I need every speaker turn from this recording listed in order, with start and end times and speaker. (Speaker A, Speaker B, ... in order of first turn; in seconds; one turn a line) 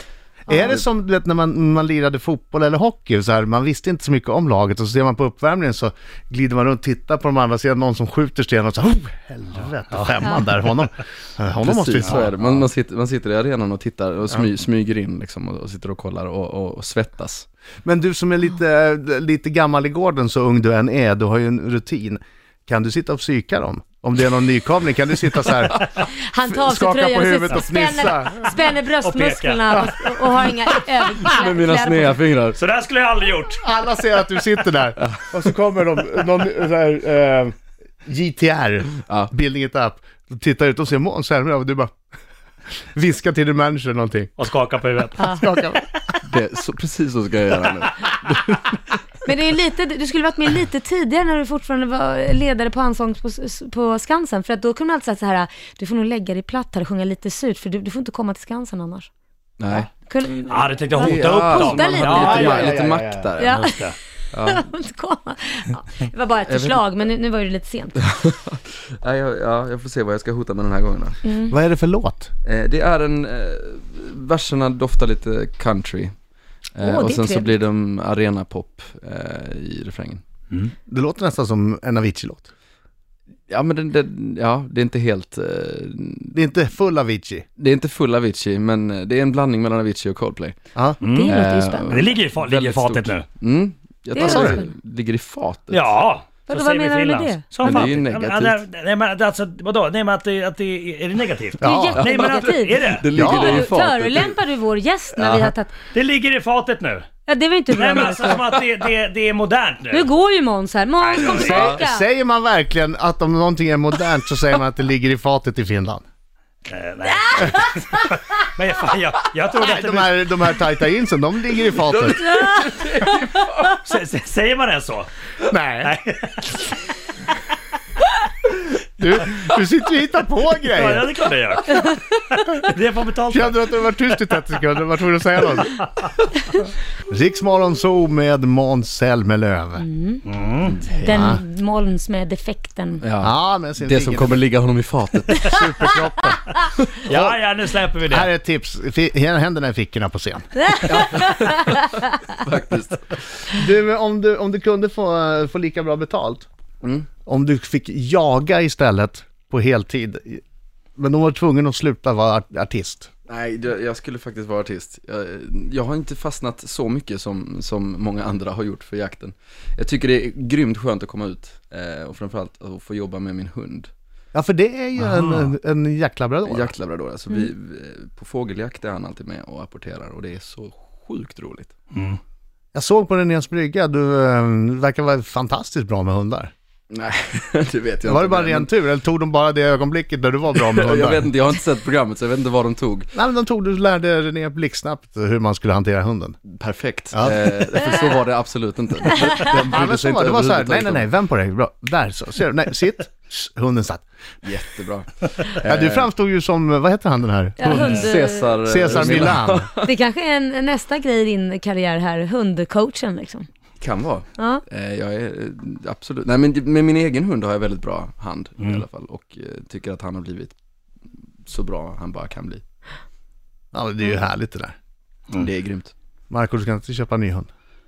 Speaker A: 0.5-0.8
Speaker B: 0.5-12.5
Speaker C: 11.6-17.5
Speaker B: 17.8-25.9
Speaker A: 26.1-32.2
Speaker B: 26.4-28.5
Speaker D: 29.0-29.7
Speaker B: 29.8-30.5
Speaker C: 31.2-32.6
Speaker D: 32.5-33.6
Speaker B: 33.5-37.5
Speaker B: 38.0-41.9
Speaker B: 43.0-44.3
Speaker D: 44.4-45.3
Speaker A: 45.2-45.4
Speaker B: 45.2-45.9
Speaker C: 46.3-48.6
Speaker A: 49.2-59.1
Speaker C: 59.6-59.9
Speaker A: 60.0-62.7
Speaker D: 60.4-62.7
Speaker C: 61.0-63.5
Speaker B: 62.0-63.3
Speaker A: 63.4-63.9
Speaker D: 63.5-64.0
Speaker C: 64.3-64.6
Speaker A: 64.4-68.1
Speaker C: 66.5-67.0
Speaker C: 68.1-71.2
Speaker A: 71.2-71.5
Speaker B: 71.5-72.3
Speaker C: 72.5-76.1
Speaker C: 76.8-80.2
Speaker A: 76.8-77.5
Speaker B: 80.9-82.5
Speaker C: 83.5-86.5
Speaker B: 86.3-87.5
Speaker C: 87.6-90.6
Speaker D: 91.0-93.3
Speaker A: 91.1-92.1
Speaker C: 91.3-95.9
Speaker A: 94.2-94.7
Speaker B: 94.2-94.6
Speaker D: 95.7-103.1
Speaker A: 96.5-97.8
Speaker C: 97.6-98.6
Speaker A: 101.6-105.8
Speaker B: 101.6-102.0
Speaker C: 102.0-104.4
Speaker B: 103.2-103.7
Speaker D: 105.9-107.1
Speaker A: 107.3-108.5
Speaker D: 107.7-110.1
Speaker A: 109.9-112.1
Speaker D: 111.0-111.6
Speaker B: 111.3-116.0
Speaker C: 111.5-111.8
Speaker D: 116.7-120.3
Speaker A: 117.1-117.8
Speaker B: 119.5-122.2
Speaker C: 121.8-123.8
Speaker A: 122.2-123.4
Speaker D: 123.8-125.1
Speaker B: 125.5-126.0
Speaker D: 125.8-126.7
Speaker B: 129.0-131.1
Speaker D: 130.7-133.6
Speaker B: 133.3-135.9
Speaker B: 137.1-139.8
Speaker A: 139.8-140.2
Speaker D: 140.3-140.9
Speaker A: 141.0-143.0
Speaker B: 141.0-141.4
Speaker C: 143.0-145.4
Speaker B: 143.2-144.4
Speaker B: 145.4-146.4
Speaker D: 147.1-148.3
Speaker B: 147.1-147.4
Speaker B: 148.1-150.5
Speaker A: 150.7-151.3
Speaker C: 150.8-153.2
Speaker B: 153.6-156.5
Speaker B: 157.3-160.4
Speaker B: 161.0-163.1
Speaker C: 163.3-173.9
Speaker B: 174.3-176.7
Speaker D: 175.0-175.5
Speaker C: 176.5-181.7
Speaker D: 181.9-182.2
Speaker B: 182.7-186.5
Speaker C: 186.9-188.7
Speaker B: 188.1-191.3
Speaker C: 190.6-193.1
Speaker B: 193.1-196.4
Speaker C: 196.5-201.1
Speaker B: 197.1-197.5
Speaker B: 199.5-204.0
Speaker C: 204.4-206.1
Speaker B: 205.6-208.1
Speaker A: 207.6-208.5
Speaker C: 207.7-209.9
Speaker D: 207.7-208.0
Speaker B: 208.6-209.7
Speaker A: 209.8-213.5
Speaker C: 213.8-220.6
Speaker A: 214.4-214.6
Speaker C: 221.5-222.6
Speaker B: 223.7-224.7
Speaker C: 225.4-225.9
Speaker B: 226.3-227.5